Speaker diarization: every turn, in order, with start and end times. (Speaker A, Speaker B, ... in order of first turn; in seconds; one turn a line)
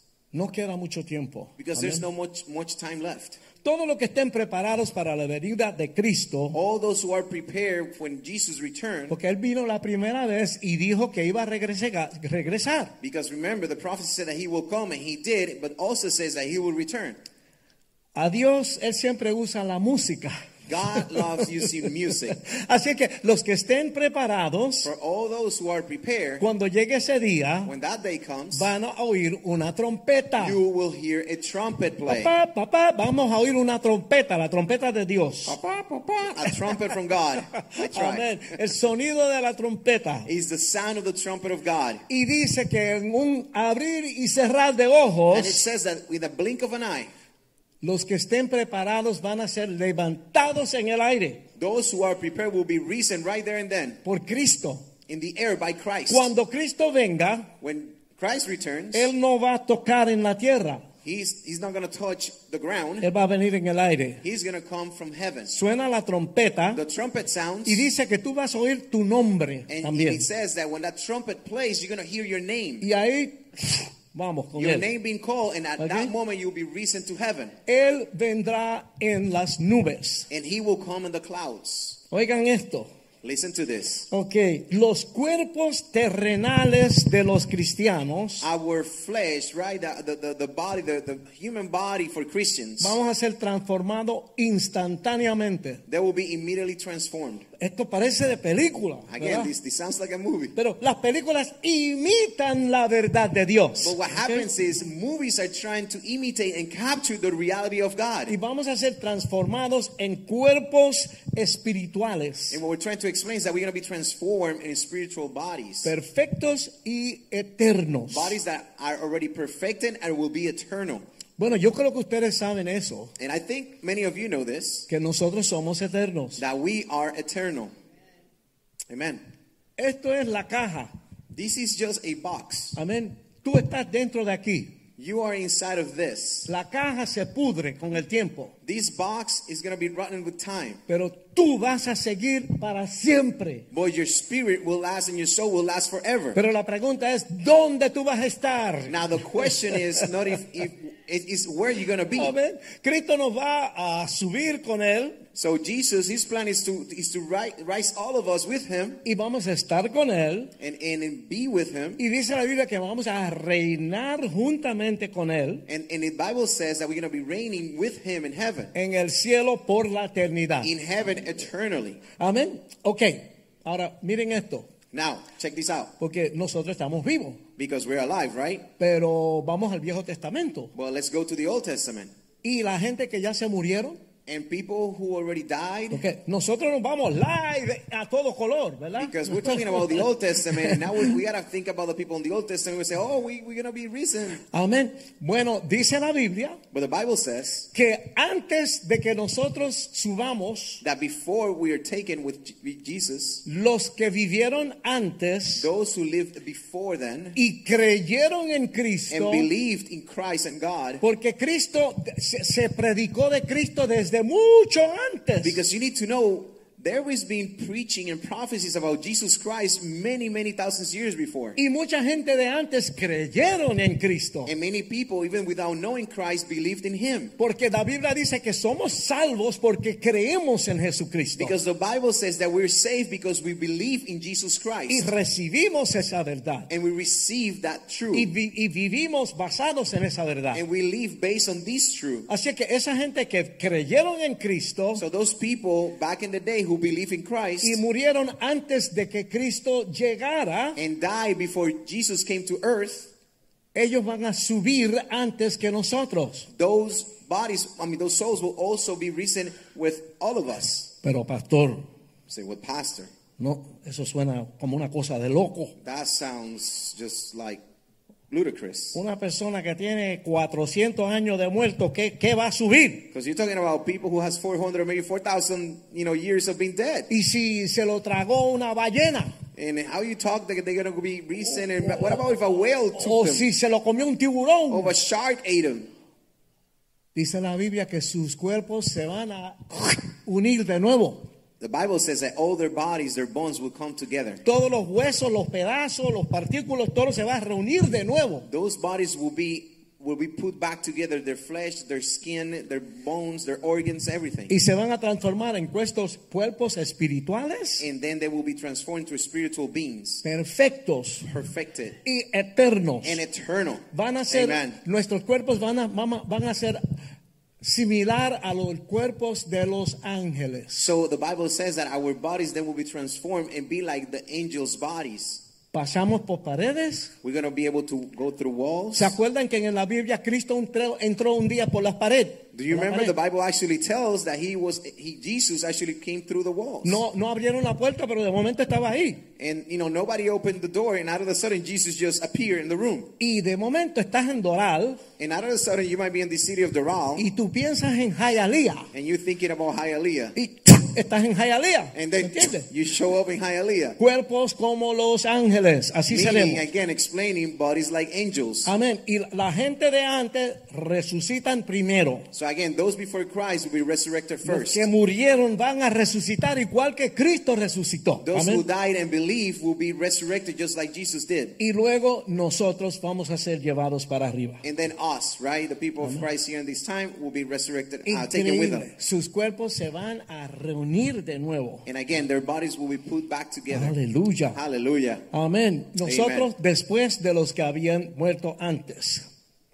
Speaker A: 0.3-2.0
Speaker B: 1.6-3.4
Speaker A: 3.6-6.6
Speaker B: 6.5-9.2
Speaker A: 9.1-12.9
Speaker B: 13.0-17.2
Speaker A: 18.1-20.4
Speaker B: 20.7-22.4
Speaker A: 20.9-21.4
Speaker A: 22.4-24.9
Speaker B: 24.8-26.4
Speaker A: 26.4-27.7
Speaker B: 27.6-28.7
Speaker A: 28.5-30.6
Speaker B: 30.4-32.3
Speaker A: 32.1-35.6
Speaker B: 35.5-38.3
Speaker A: 37.5-40.3
Speaker B: 40.3-42.0
Speaker A: 42.1-45.6
Speaker B: 45.3-47.1
Speaker A: 47.8-51.4
Speaker B: 51.6-54.0
Speaker A: 54.0-54.9
Speaker B: 55.1-56.3
Speaker A: 56.1-57.5
Speaker B: 57.6-59.1
Speaker A: 58.9-60.9
Speaker B: 61.0-63.1
Speaker A: 63.0-64.2
Speaker B: 64.2-65.5
Speaker A: 65.5-66.8
Speaker B: 66.7-67.8
Speaker A: 67.7-70.2
Speaker B: 69.7-72.8
Speaker A: 72.8-74.9
Speaker B: 74.5-77.5
Speaker A: 75.8-76.1
Speaker A: 77.7-80.3
Speaker B: 80.3-82.0
Speaker A: 82.1-82.9
Speaker B: 83.2-84.1
Speaker A: 84.1-88.5
Speaker B: 88.4-93.0
Speaker A: 92.8-95.8
Speaker B: 95.9-97.5
Speaker A: 97.6-99.5
Speaker B: 99.1-100.5
Speaker A: 100.5-104.5
Speaker B: 103.8-108.4
Speaker A: 108.3-112.6
Speaker B: 112.5-115.9
Speaker A: 115.8-118.4
Speaker B: 118.1-121.0
Speaker A: 121.4-123.1
Speaker B: 123.2-124.9
Speaker A: 124.9-126.4
Speaker B: 126.4-127.7
Speaker B: 128.9-129.2
Speaker A: 129.8-130.9
Speaker B: 131.3-132.8
Speaker A: 132.7-134.8
Speaker B: 135.0-136.5
Speaker A: 136.4-138.5
Speaker B: 138.6-140.8
Speaker A: 140.9-143.7
Speaker B: 143.7-146.4
Speaker A: 146.3-149.8
Speaker B: 148.9-152.3
Speaker A: 152.2-155.2
Speaker B: 155.3-159.0
Speaker A: 159.0-160.5
Speaker B: 160.6-162.0
Speaker A: 162.0-165.6
Speaker B: 165.7-168.7
Speaker A: 168.7-170.7
Speaker B: 170.6-172.0
Speaker A: 172.2-174.7
Speaker B: 174.9-175.9
Speaker A: 176.0-177.4
Speaker B: 177.6-178.7
Speaker A: 178.8-180.7
Speaker B: 180.7-182.1
Speaker A: 182.4-184.0
Speaker B: 184.2-186.0
Speaker A: 185.9-191.1
Speaker B: 189.0-194.4
Speaker A: 194.5-196.6
Speaker B: 196.7-197.7
Speaker A: 197.7-200.8
Speaker B: 200.8-203.4
Speaker A: 203.4-205.7
Speaker B: 205.6-207.4
Speaker A: 207.3-209.5
Speaker B: 209.1-211.0
Speaker A: 211.0-215.6
Speaker B: 215.4-221.6
Speaker A: 221.6-224.5
Speaker B: 224.4-227.3
Speaker A: 227.4-231.5
Speaker B: 231.4-235.1
Speaker A: 234.9-236.7
Speaker B: 236.7-238.3
Speaker A: 238.1-240.6
Speaker B: 240.5-242.3
Speaker A: 242.3-245.0
Speaker B: 244.9-247.8
Speaker A: 247.6-250.8
Speaker B: 250.8-253.1
Speaker A: 253.7-256.5
Speaker B: 256.5-260.9
Speaker A: 261.0-261.9
Speaker B: 262.3-263.1
Speaker A: 263.4-265.7
Speaker B: 265.8-267.6
Speaker B: 268.3-269.0
Speaker A: 268.9-273.1
Speaker B: 273.1-277.1
Speaker A: 277.1-279.4
Speaker B: 279.6-283.4
Speaker A: 281.6-282.2
Speaker A: 282.9-284.9
Speaker B: 284.7-285.9
Speaker A: 287.1-291.3
Speaker B: 291.6-294.4
Speaker A: 294.4-298.5
Speaker B: 298.5-304.5
Speaker A: 304.5-307.8
Speaker B: 307.8-310.2
Speaker A: 310.2-311.3
Speaker B: 311.2-312.0
Speaker A: 312.0-313.2
Speaker B: 313.0-314.8
Speaker A: 313.9-316.8
Speaker A: 317.6-320.9
Speaker B: 320.8-325.4
Speaker A: 325.7-327.1
Speaker B: 327.2-329.1
Speaker A: 328.9-333.1
Speaker B: 332.5-337.0
Speaker A: 336.8-339.2
Speaker B: 339.4-343.1
Speaker A: 343.2-345.0
Speaker B: 345.2-347.2
Speaker A: 347.1-348.9
Speaker B: 348.9-350.4
Speaker A: 350.4-352.7
Speaker B: 351.9-354.0
Speaker A: 354.0-356.6
Speaker B: 356.1-358.7
Speaker A: 358.6-362.3
Speaker B: 362.3-364.9
Speaker A: 364.4-368.6
Speaker B: 368.2-371.6
Speaker A: 371.6-374.6
Speaker B: 374.6-378.9
Speaker A: 376.0-376.2
Speaker A: 378.0-381.8
Speaker B: 381.9-383.9
Speaker A: 383.7-384.6
Speaker B: 384.5-385.2
Speaker A: 385.3-389.2
Speaker B: 386.0-386.5